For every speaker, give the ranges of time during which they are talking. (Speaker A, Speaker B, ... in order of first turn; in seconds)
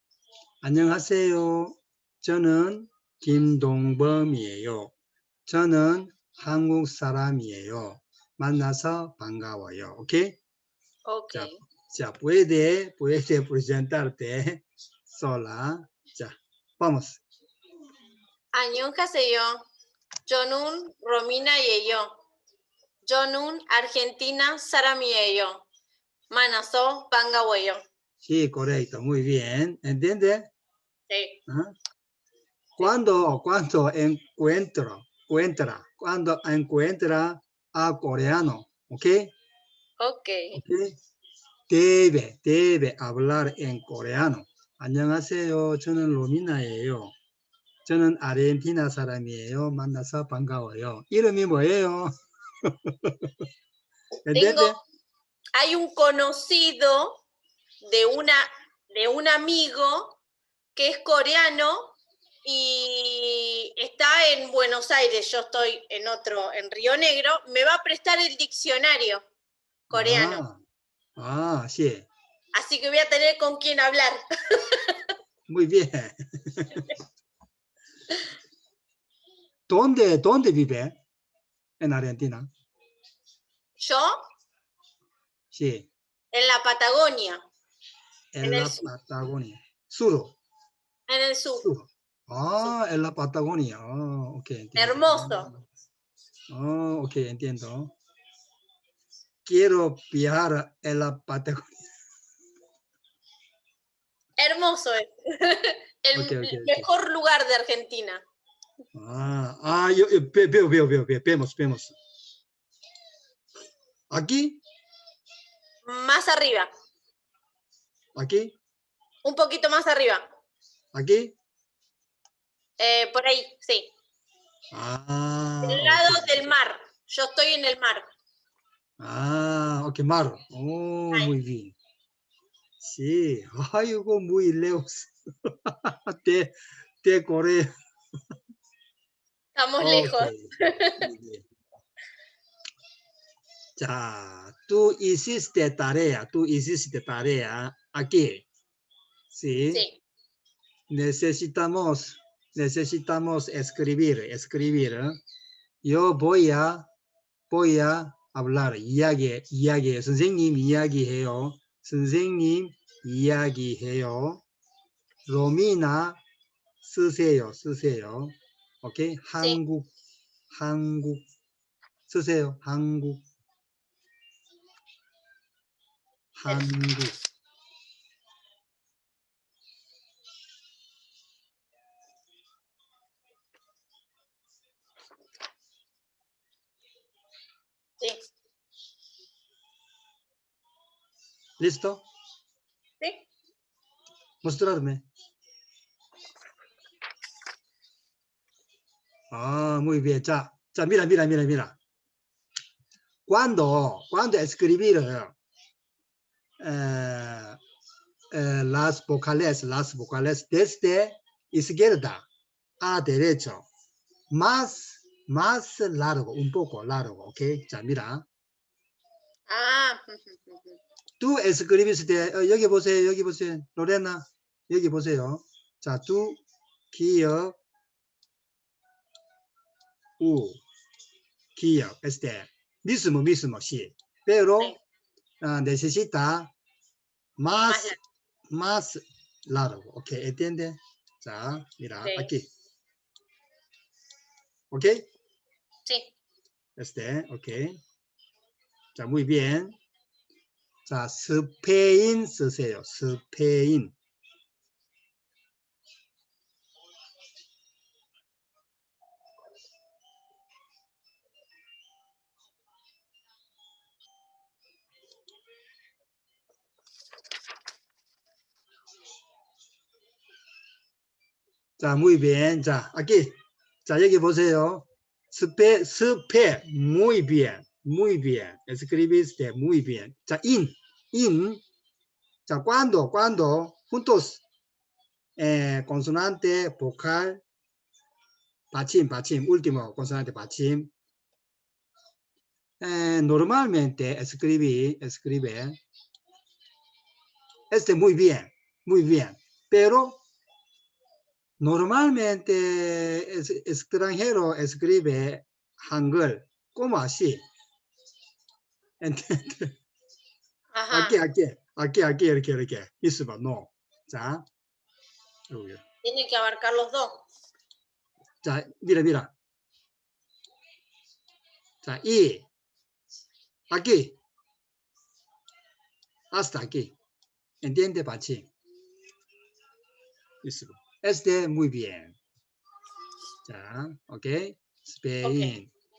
Speaker A: 0.6-4.9, 5.5-10.4, 11.3-17.2, 28.2-30.5, 31.5-31.7, 32.8-39.3, 40.5-41.0, 41.7-47.1, 47.8-53.3, 54.2-54.8, 69.9-70.6, 71.2-72.1, 75.5-76.9, 79.7-81.0, 81.8-82.5, 85.5-85.9, 88.3-90.3, 91.6-95.6, 96.5-97.9, 99.4-101.8, 106.1-106.9, 108.9-112.0, 114.1-114.6, 118.2-118.5, 120.9-121.3, 124.7-126.5, 129.0-131.8, 132.8-137.7, 139.8-141.4, 143.8-148.4, 149.3-149.8, 150.9-155.2, 155.8-156.9, 157.5-164.4, 165.2-166.2, 166.8-169.9, 170.5-171.2, 172.1-173.2, 176.3-177.2, 191.6-192.0, 194.4-195.1, 199.3-201.8, 203.3-205.3, 206.6-207.6, 208.3-212.3, 212.8-213.7, 214.3-218.2, 221.2-226.4, 226.9-227.6, 230.2-230.6, 231.6-234.8, 235.4-236.5, 237.4-237.9, 238.5-242.5, 244.7-245.1, 246.8-247.8, 248.9-249.8, 250.9-253.9, 271.8-281.6, 282.5-284.4, 285.4-287.4, 288.7-290.9, 292.8-295.8, 297.7-300.2, 301.6-307.4, 309.0-309.8, 310.9-314.4, 315.5-315.8, 318.4-319.3, 321.8-322.5, 323.7-324.2, 326.3-326.9, 327.6-328.5, 330.4-332.2, 333.4-335.7
Speaker B: 11.1-11.6, 18.5-19.6, 20.3-22.1, 23.0-25.6, 26.3-27.8, 31.1-31.4, 40.0-40.6, 54.3-54.8, 55.5-57.2, 57.8-60.2, 60.8-69.2, 69.9-70.4, 72.5-75.0, 83.8-84.2, 86.3-87.4, 88.4-88.8, 91.1-91.7, 94.8-95.5, 104.4-108.2, 115.8-116.7, 119.2-120.2, 122.8-123.9, 125.6-128.1, 139.6-141.1, 149.7-150.0, 219.5-220.8, 237.7-238.0, 242.0-242.3, 245.9-246.1, 310.7-311.2, 316.0-317.2, 335.2-335.5